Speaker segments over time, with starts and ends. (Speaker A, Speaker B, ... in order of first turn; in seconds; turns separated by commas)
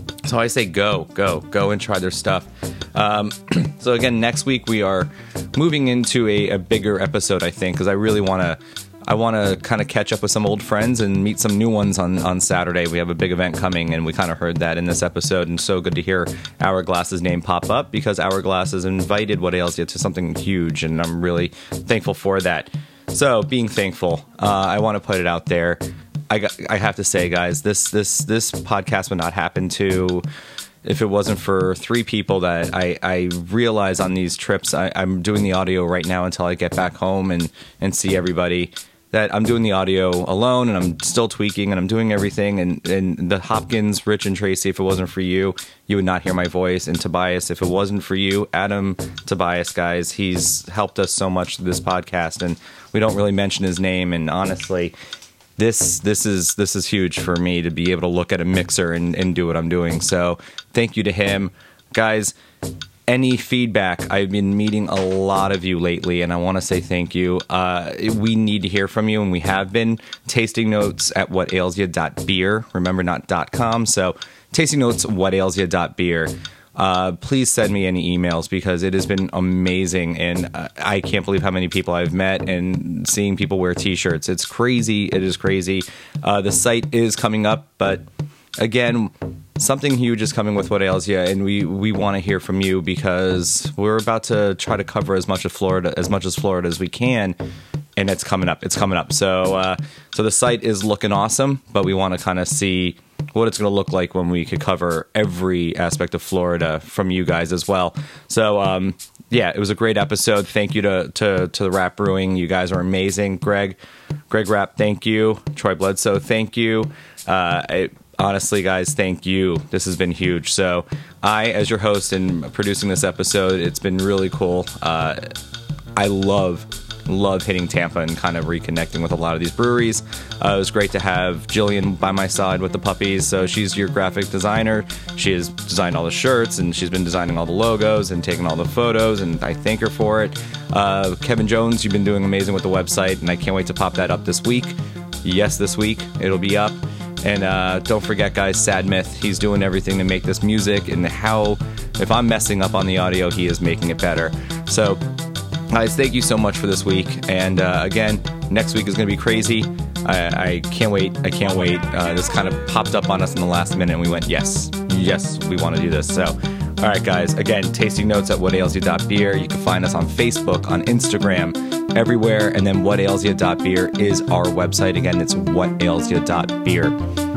Speaker A: 0.2-30.2, Speaker A: 30.8-55.0, Speaker A: 55.6-62.3, Speaker A: 63.1-88.0, Speaker A: 88.6-97.4, Speaker A: 98.0-113.8, Speaker A: 114.3-125.3, Speaker A: 126.0-155.0, Speaker A: 155.7-177.0